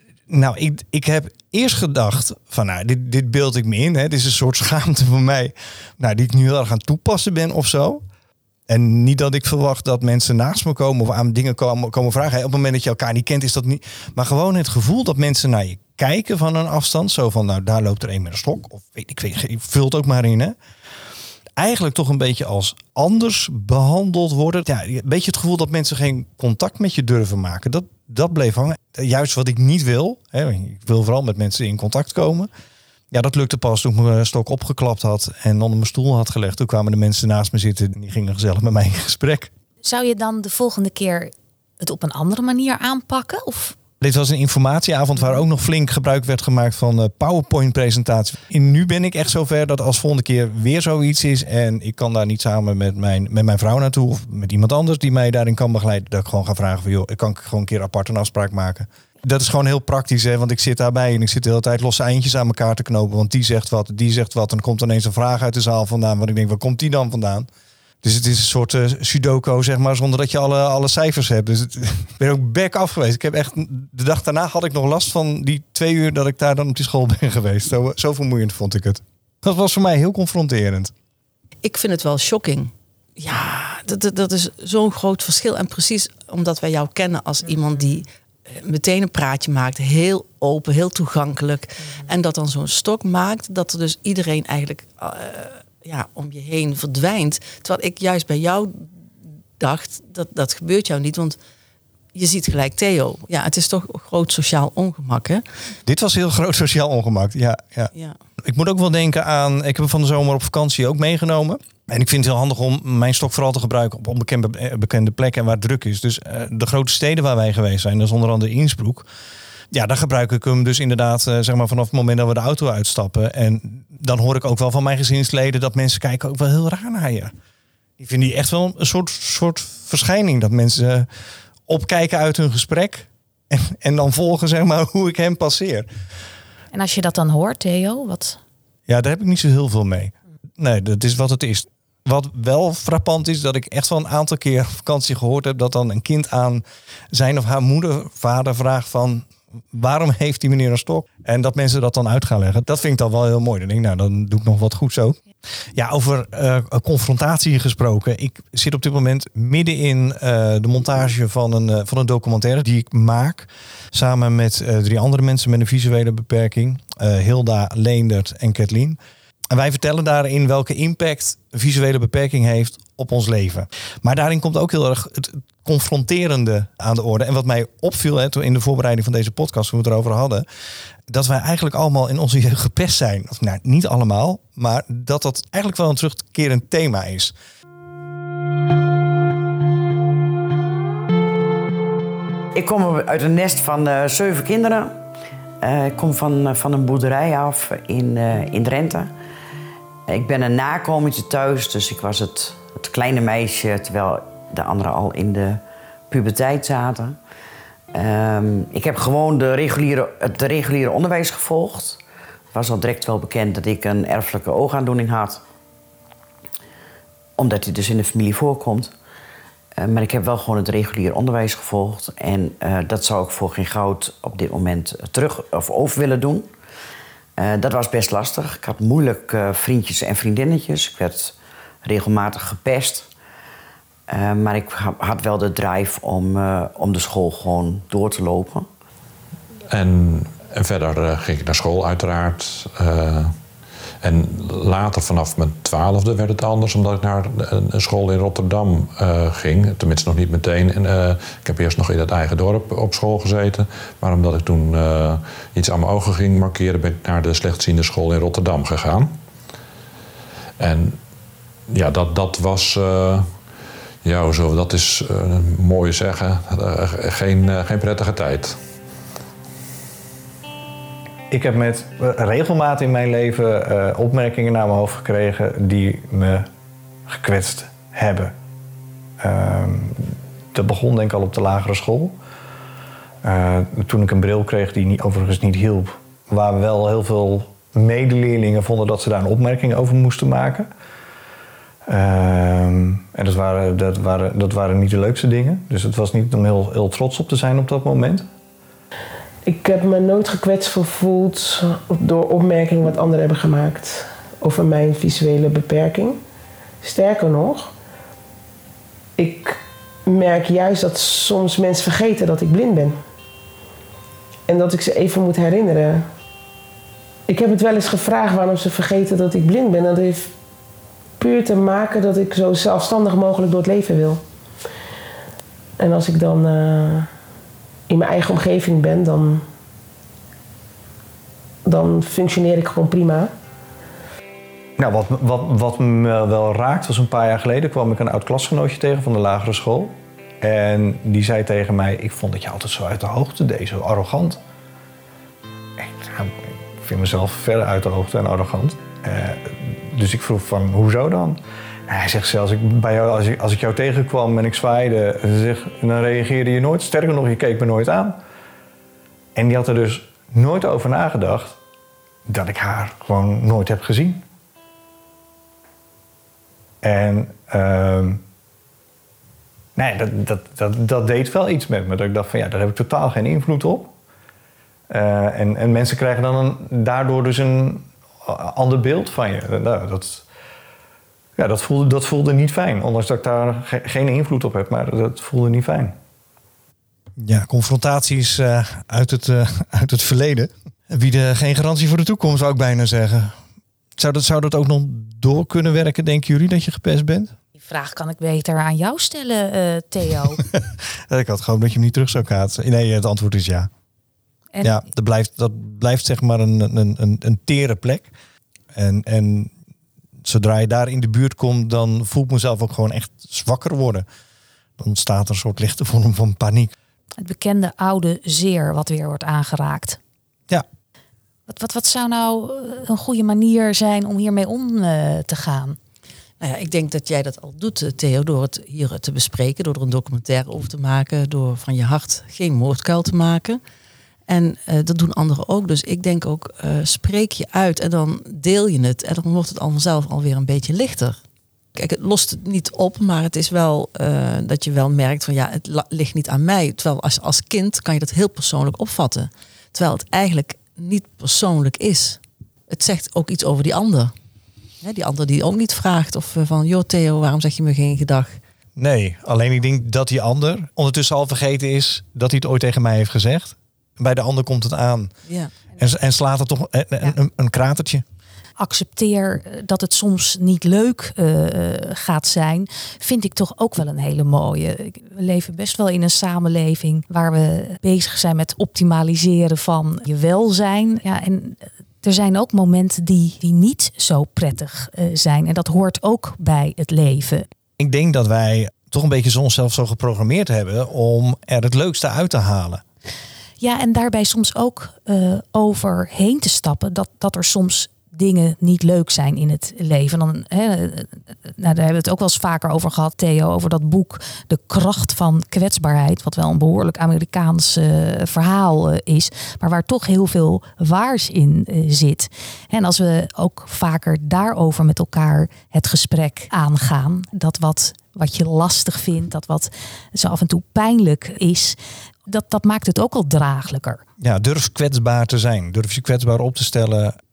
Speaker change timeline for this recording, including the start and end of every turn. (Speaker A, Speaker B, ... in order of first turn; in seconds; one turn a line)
Speaker A: 0.3-8.0
Speaker A: 8.7-20.6
Speaker A: 21.6-32.5
Speaker A: 33.1-39.5
Speaker B: 39.8-43.8
Speaker A: 44.0-67.5
Speaker A: 68.0-80.9
Speaker C: 81.6-98.9
Speaker C: 99.6-101.4
Speaker C: 102.1-105.4
Speaker A: 105.9-119.1
Speaker A: 119.7-127.3
Speaker A: 128.0-131.1
Speaker A: 131.7-135.9
Speaker B: 136.7-138.4
Speaker A: 138.9-155.2
Speaker A: 155.8-169.0
Speaker A: 169.5-180.5
Speaker A: 181.1-187.3
Speaker D: 192.5-195.0
Speaker D: 195.6-199.1
Speaker D: 200.1-207.2
Speaker D: 207.9-212.0
Speaker D: 212.5-215.4
Speaker D: 217.4-218.9
Speaker D: 219.8-226.5
Speaker D: 227.4-233.1
Speaker D: 234.1-238.7
Speaker E: 239.7-243.4
Speaker E: 244.0-259.1
Speaker E: 260.6-261.0
Speaker E: 261.7-263.3
Speaker E: 264.0-268.6
Speaker A: 271.3-276.5
Speaker A: 277.1-278.3
Speaker A: 279.2-282.2
Speaker A: 283.2-290.7
Speaker A: 291.9-298.3
Speaker F: 299.4-306.2
Speaker F: 306.8-307.7
Speaker F: 309.2-313.0
Speaker F: 314.5-316.1
Speaker F: 317.3-320.3
Speaker F: 321.2-324.2
Speaker F: 325.8-327.1
Speaker F: 327.9-329.4
Speaker F: 331.7-333.3
Speaker A: 334.8-344.4
Speaker A: 345.8-358.2
Speaker A: 359.4-361.6
Speaker A: 362.3-364.2
Speaker A: 366.8-368.2
Speaker A: 369.8-373.9
Speaker A: 374.9-380.2
Speaker A: 381.4-386.0
Speaker A: 387.2-393.4
Speaker A: 394.0-397.3
Speaker B: 397.6-400.4
Speaker A: 401.1-403.7
Speaker B: 404.5-404.8
Speaker A: 404.6-408.1
Speaker A: 408.7-409.5
Speaker A: 410.2-414.1
Speaker A: 414.8-416.7
Speaker B: 417.2-420.0
Speaker B: 421.5-425.8
Speaker C: 426.4-433.6
Speaker C: 434.3-441.2
Speaker C: 441.8-454.1
Speaker C: 454.8-458.4
Speaker A: 458.8-465.1
Speaker A: 465.8-468.0
Speaker B: 468.6-487.5
Speaker A: 487.8-492.8
Speaker B: 493.6-524.0
Speaker A: 524.2-527.2